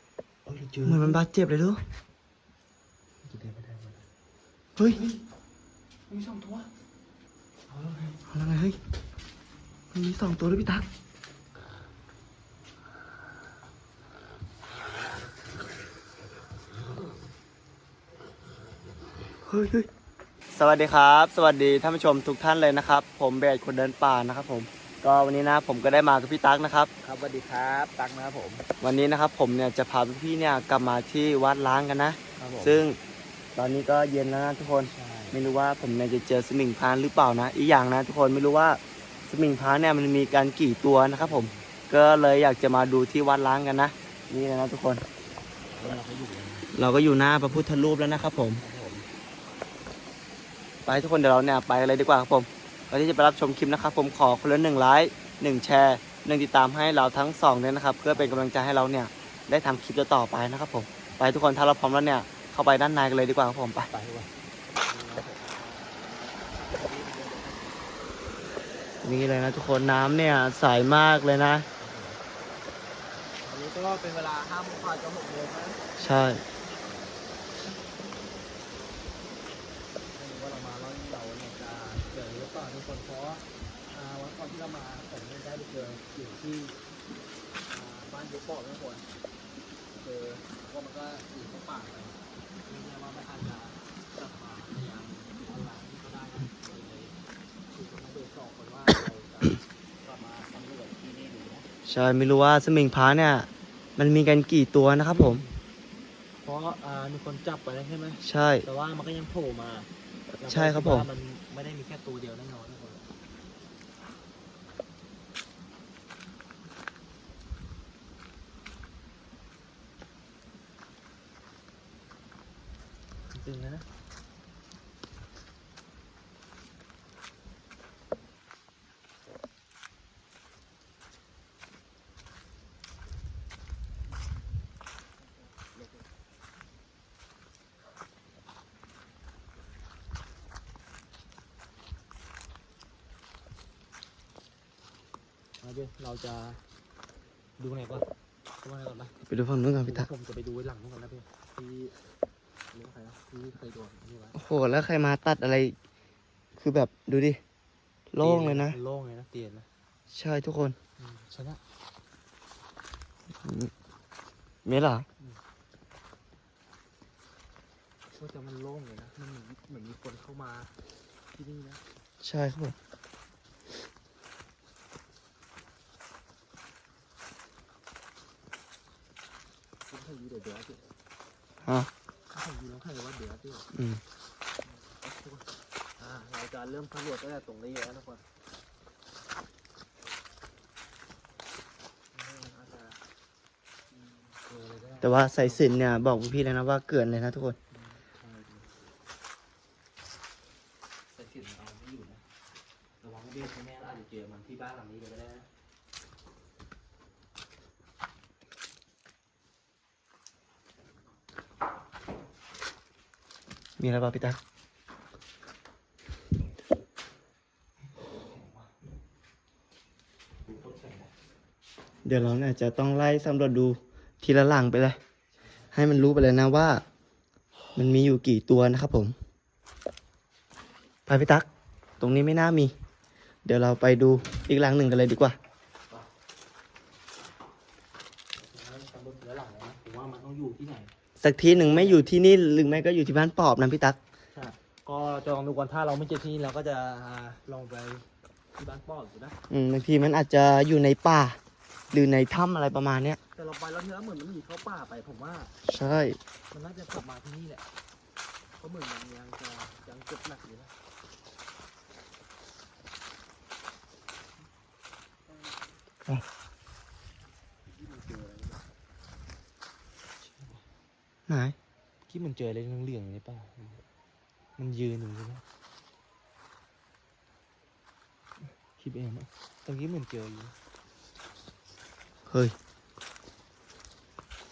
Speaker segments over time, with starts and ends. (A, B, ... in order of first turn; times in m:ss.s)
0:00.4-0:01.2 A
0:00.9-0:01.8 B
0:03.2-0:04.1 A
0:04.9-0:05.2 A
0:06.1-0:06.7 A
0:07.7-0:08.2 A
0:08.3-0:08.8 B
0:09.9-0:10.9 B
0:19.4-0:19.9 B
0:20.5-0:26.9 B
0:27.0-0:28.7 A
0:28.8-0:33.0 B
0:32.4-0:32.8 A
0:33.6-0:45.0 B
0:34.9-0:35.4 A
0:41.2-0:41.7 A
0:45.8-0:46.7 A
0:46.7-0:48.6 B
0:48.4-0:49.1 A
0:50.8-1:03.9 B
0:58.1-0:58.4 A
1:03.9-1:07.9 A
1:09.0-1:11.7 B
1:11.8-1:12.2 A
1:13.4-1:15.8 A
1:16.0-1:16.4 B
1:20.1-1:26.8 A
1:27.7-1:29.1 A
1:29.9-1:37.2 A
1:37.7-1:41.7 A
1:41.8-1:45.4 B
1:45.0-1:45.6 A
1:46.4-1:49.9 A
1:48.2-1:48.7 B
1:50.4-1:53.0 A
1:50.4-1:51.1 B
2:03.3-2:03.9 A
2:15.3-2:16.1 A
2:25.6-2:26.6 A
2:27.6-2:28.1 A
2:28.6-2:29.1 A
2:29.3-2:30.1 B
2:29.8-2:31.9 A
2:32.7-2:34.4 A
2:34.4-2:35.8 B
2:36.6-2:37.4 B
2:38.1-2:38.8 B
2:38.2-2:39.7 A
2:40.1-2:40.8 B
2:41.0-2:41.6 A
2:43.4-2:43.7 B
2:44.6-2:45.1 B
2:48.2-2:50.7 A
2:51.3-2:51.8 A
2:52.2-2:52.8 B
2:59.9-3:00.9 A
3:01.6-3:01.9 B
3:02.3-3:03.7 A
3:03.7-3:04.0 B
3:04.6-3:08.2 A
3:12.1-3:13.0 A
3:14.0-3:15.8 A
3:15.0-3:17.6 B
3:17.7-3:18.7 A
3:21.1-3:22.3 A
3:23.0-3:25.5 A
3:33.8-3:34.4 B
3:38.0-3:38.8 A
3:40.4-3:41.1 A
3:42.0-3:45.0 B
3:45.4-3:45.7 A
3:45.7-3:46.8 B
3:47.8-3:49.2 B
3:51.1-3:51.5 B
3:52.0-3:52.7 B
3:53.4-3:55.4 B
3:58.4-4:00.9 A
4:01.2-4:04.0 B
4:01.4-4:02.1 A
4:04.3-4:09.4 A
4:09.5-4:11.4 B
4:11.9-4:13.2 B
4:13.4-4:15.5 A
4:15.6-4:16.2 B
4:16.5-4:17.6 A
4:18.6-4:20.7 A
4:27.7-4:28.6 A
4:30.2-4:30.6 A
4:31.3-4:31.6 B
4:32.1-4:33.8 A
4:34.6-4:35.4 A
4:38.6-4:40.6 A
4:42.3-4:42.6 B